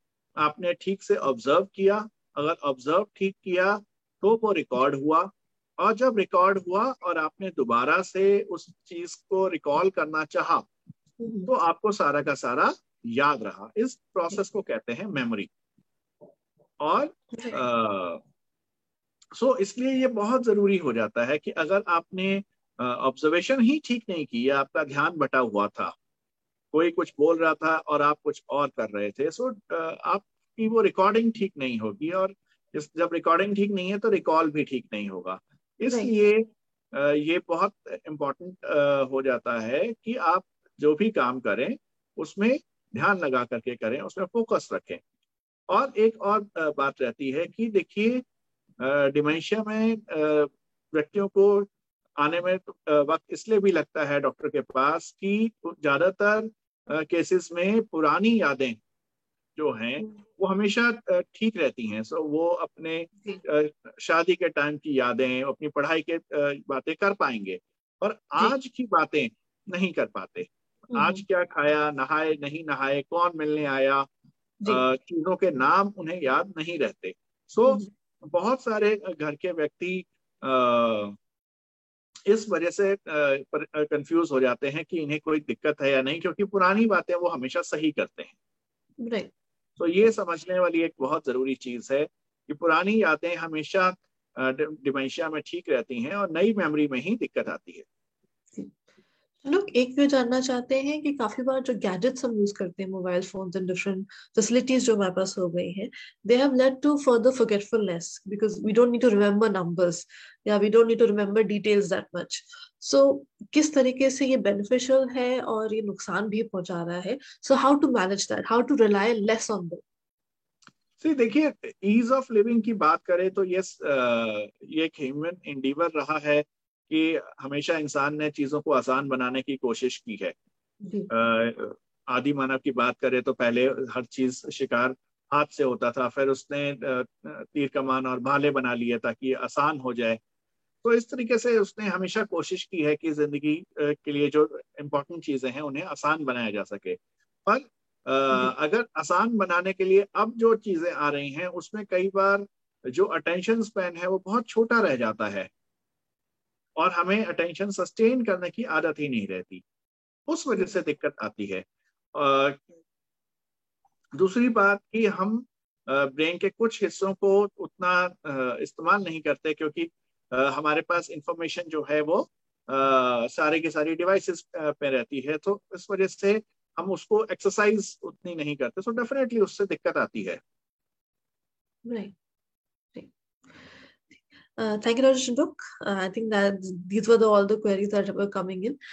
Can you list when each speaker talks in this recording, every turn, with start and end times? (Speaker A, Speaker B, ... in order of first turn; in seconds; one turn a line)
Speaker A: 0.4-10.7
Speaker B: 11.2-11.5
Speaker A: 11.5-15.5
Speaker A: 16.8-18.2
Speaker B: 17.3-17.6
Speaker A: 19.3-25.9
Speaker A: 26.7-45.0
Speaker A: 45.7-48.2
Speaker A: 48.8-58.8
Speaker A: 59.5-74.1
Speaker B: 70.9-71.2
Speaker A: 74.7-81.2
Speaker A: 82.3-88.4
Speaker B: 89.0-89.3
Speaker A: 89.8-97.8
Speaker B: 99.4-119.8
Speaker A: 121.0-130.3
Speaker B: 130.8-131.1
Speaker A: 131.1-140.2
Speaker A: 140.8-155.5
Speaker A: 156.8-159.6
Speaker A: 160.3-162.6
Speaker A: 164.1-180.4
Speaker B: 181.8-182.1
Speaker B: 184.6-188.8